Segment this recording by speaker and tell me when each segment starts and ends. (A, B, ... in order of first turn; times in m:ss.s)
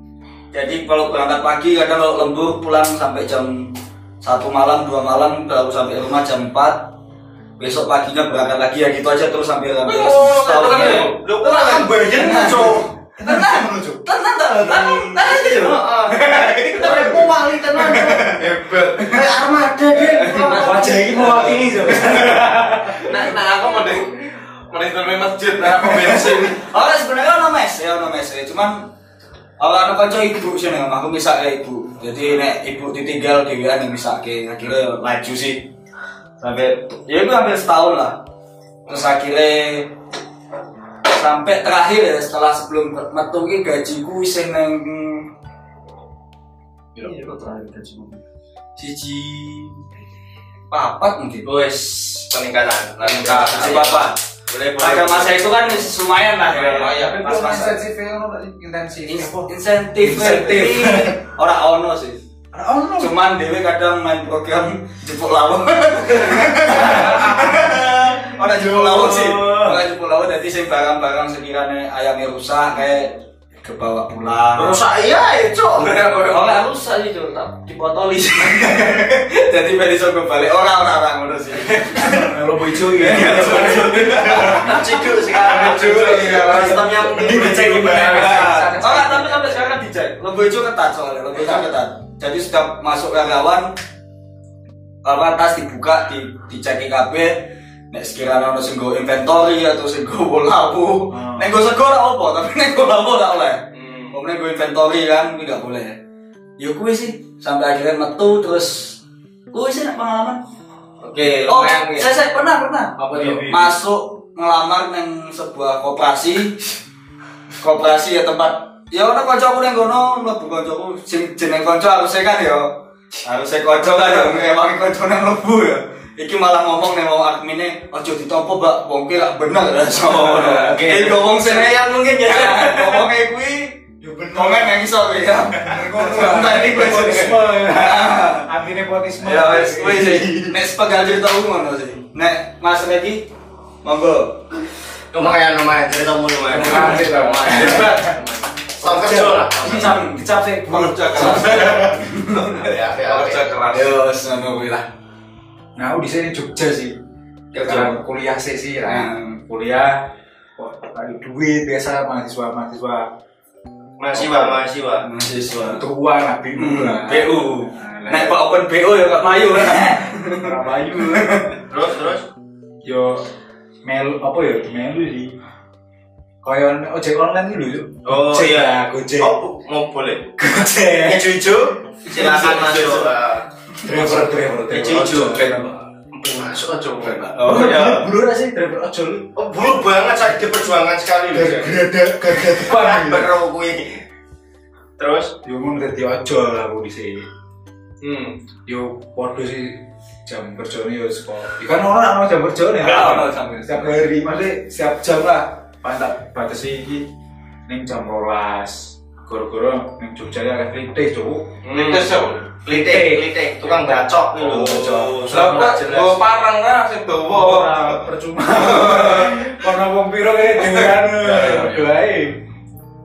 0:00.5-0:06.9 A
0:07.6-0:18.3 A
0:09.8-0:11.2 B
0:10.6-0:12.9 C
0:13.2-0:14.0 D
0:14.6-0:15.4 D
0:15.4-0:18.4 C
0:16.8-0:17.2 D
0:18.2-0:19.2 B
0:19.0-0:21.4 C
0:20.1-0:22.4 A
0:20.4-0:23.4 D
0:23.0-0:26.6 B
0:25.6-0:26.4 D
0:25.9-0:28.9 A
0:29.6-0:35.6 A
0:36.4-0:38.2 A
0:38.9-0:39.9 A
0:41.0-0:45.3 A
0:47.0-0:48.2 A
0:48.8-0:49.8 A
0:50.7-0:51.5 A
0:51.4-0:55.7 C
0:53.0-0:54.2 A
0:53.2-0:54.0 B
0:54.8-0:57.7 A
0:56.5-0:57.2 B
0:56.7-1:01.2 D
0:59.1-1:02.2 A
1:02.5-1:03.1 D
1:03.0-1:14.8 A
1:06.3-1:07.9 D
1:08.4-1:09.8 D
1:14.6-1:16.6 C
1:15.8-1:22.4 A
1:21.9-1:24.9 D
1:22.9-1:33.7 A
1:24.4-1:28.5 C
1:25.4-1:29.7 D
1:35.0-1:46.0 A
1:41.1-1:41.5 D
1:43.7-1:44.2 C
1:46.6-1:49.0 A
1:49.5-1:50.4 A
1:51.0-1:52.1 C
1:51.5-1:56.6 A
1:53.0-1:53.5 C
1:53.1-1:53.7 D
1:57.6-2:13.8 A
2:03.8-2:04.3 C
2:10.4-2:13.0 C
2:10.5-2:11.2 D
2:14.0-2:14.8 D
2:14.3-2:18.5 A
2:15.5-2:20.6 D
2:19.2-2:23.2 A
2:23.8-2:24.4 A
2:25.1-2:30.0 C
2:26.5-2:28.1 D
2:26.5-2:27.0 A
2:28.8-2:32.0 D
2:30.7-2:31.9 B
2:31.0-2:32.7 A
2:32.5-2:33.5 C
2:33.0-2:33.9 B
2:33.7-2:34.8 A
2:35.8-2:37.0 D
2:37.5-2:38.0 A
2:37.6-2:43.1 D
2:38.9-2:39.3 A
2:44.0-2:45.0 C
2:44.2-2:45.8 A
2:45.6-2:48.4 D
2:46.6-2:51.6 A
2:49.6-2:51.4 D
2:51.7-2:52.2 C
2:52.8-2:53.2 D
2:53.8-2:55.3 D
2:56.4-2:59.3 D
2:58.0-3:00.3 C
3:00.4-3:01.2 D
3:01.0-3:03.4 C
3:02.2-3:03.1 B
3:02.2-3:02.8 A
3:03.8-3:05.7 D
3:04.7-3:05.6 C
3:05.3-3:05.7 B
3:06.1-3:08.0 C
3:06.9-3:07.2 B
3:07.3-3:08.0 A
3:07.4-3:09.3 D
3:09.4-3:11.8 C
3:11.3-3:13.3 D
3:12.3-3:14.0 C
3:15.0-3:15.3 C
3:15.4-3:17.3 D
3:18.0-3:18.4 C
3:18.7-3:27.1 D
3:22.8-3:23.9 A
3:27.7-3:31.5 D
3:31.6-3:36.2 C
3:31.7-3:32.5 B
3:32.7-3:33.2 D
3:34.4-3:35.8 D
3:35.3-3:38.0 B
3:37.3-3:42.4 D
3:38.5-3:39.5 B
3:40.7-3:41.9 B